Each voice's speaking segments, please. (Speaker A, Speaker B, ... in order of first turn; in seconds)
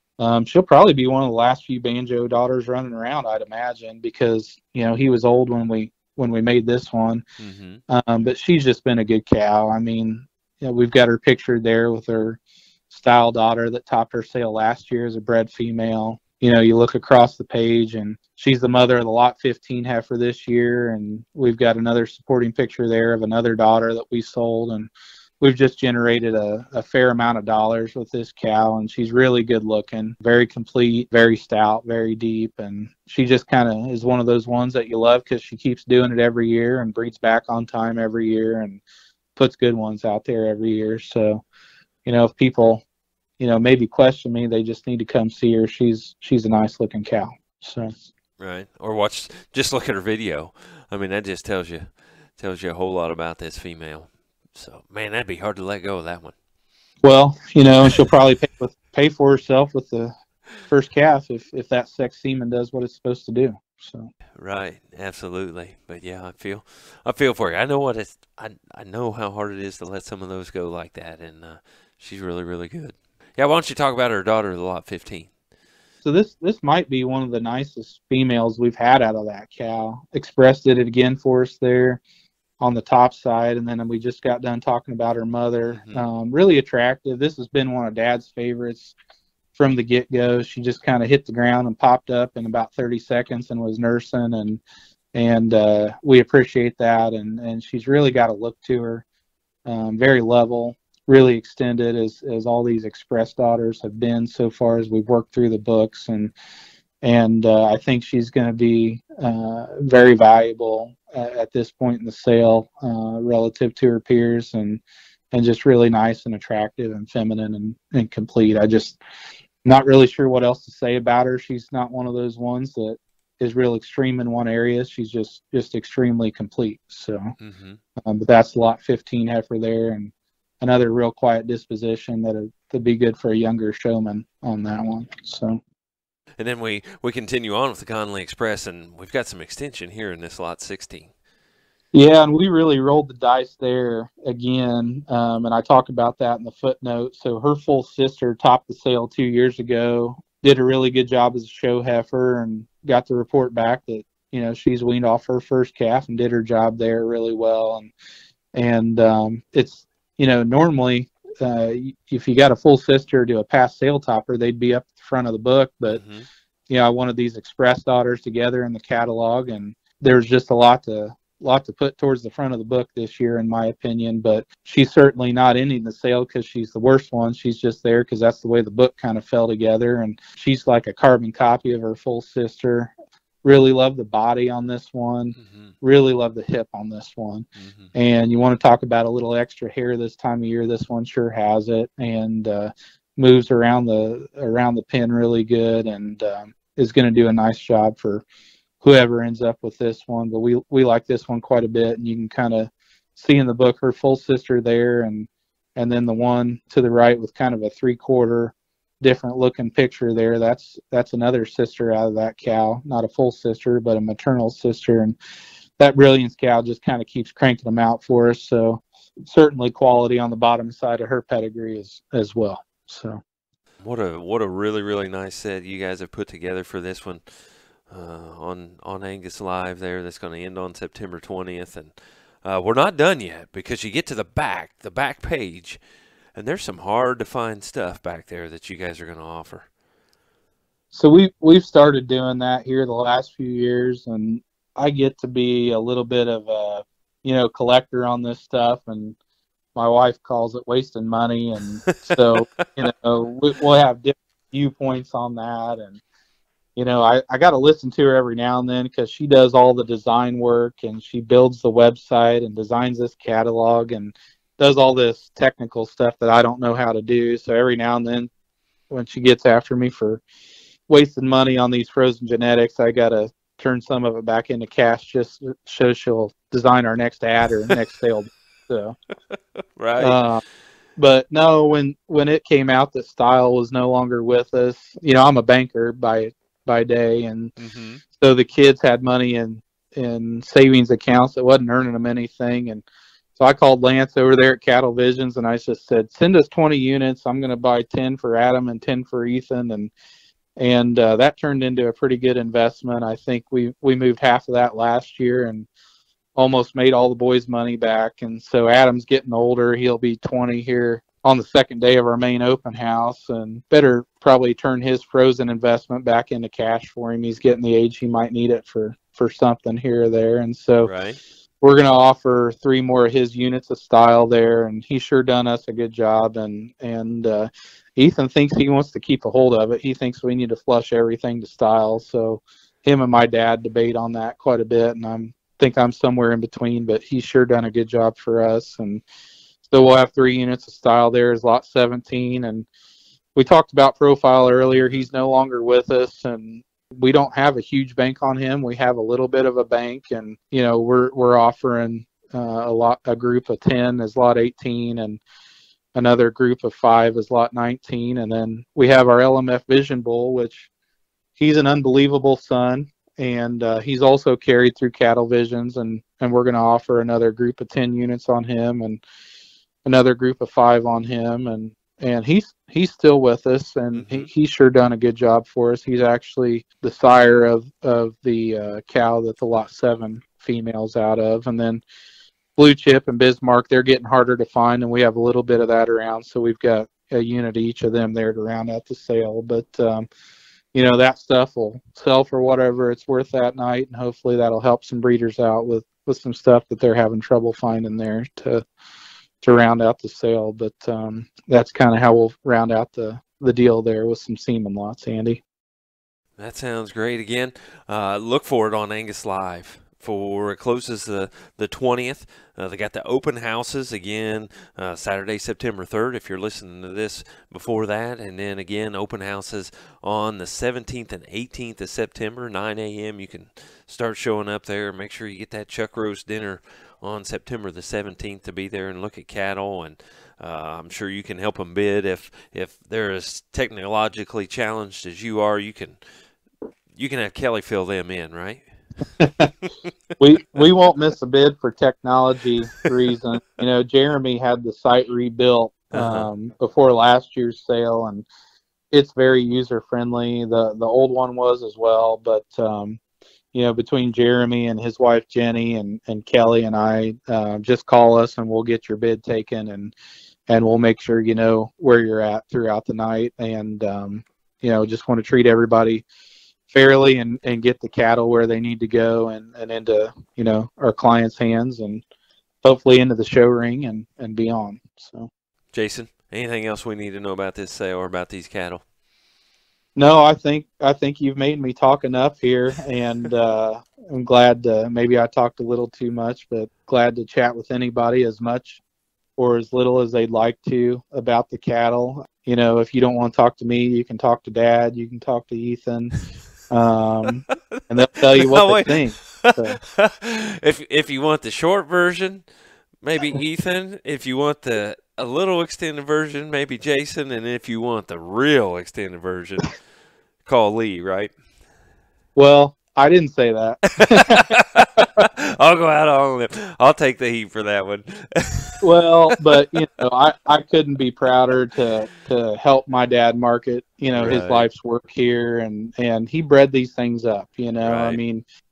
Speaker A: 0.2-7.2, 7.9-12.4, 12.9-38.8, 39.4-41.4, 42.0-42.8, 43.4-48.0, 57.0-60.1, 60.7-64.1, 76.0-82.0, 82.6-88.9, 89.5-94.6, 95.1-99.0, 99.7-106.3, 107.0-119.0, 119.6-127.3, 128.0-135.6, 141.9-157.9, 158.5-166.0, 166.7-182.9, 183.4-198.2, 198.8-215.2, 215.8-223.2, 240.9-249.2, 249.7-256.0, 256.8-268.3, 268.9-270.2, 270.9-278.9, 280.0-280.4, 281.0-287.5, 288.2-292.8, 293.4-299.9, 300.6-305.7, 306.4-320.9, 321.6-339.0, 339.7-342.7, 343.3-355.2, 355.9-360.7, 361.4-369.0, 369.8-381.8, 382.6-390.1, 390.7-398.6, 399.4-405.4, 439.2-439.5, 440.2-448.2, 448.9-453.0, 453.5-459.9, 460.5-466.0, 466.7-472.0, 472.6-475.3, 479.9-488.8, 489.4-496.1, 496.7-499.8, 512.4-515.2, 518.8-528.4
Speaker B: 7.4-7.8, 48.4-56.3, 64.3-75.3, 85.7-86.0, 127.4-127.8, 136.4-141.1, 165.9-166.3, 185.4-185.7, 187.6-187.9, 223.8-227.2, 227.9-235.8, 236.3-239.7, 251.9-252.6, 279.8-280.2, 287.6-288.0, 320.8-321.2, 344.8-345.1, 373.9-374.3, 406.4-436.0, 436.9-438.6, 445.9-446.3, 475.7-478.8, 497.5-497.8, 498.4-502.4, 503.0-509.7, 510.4-511.3, 514.0-519.8, 524.1-524.7, 527.8-528.2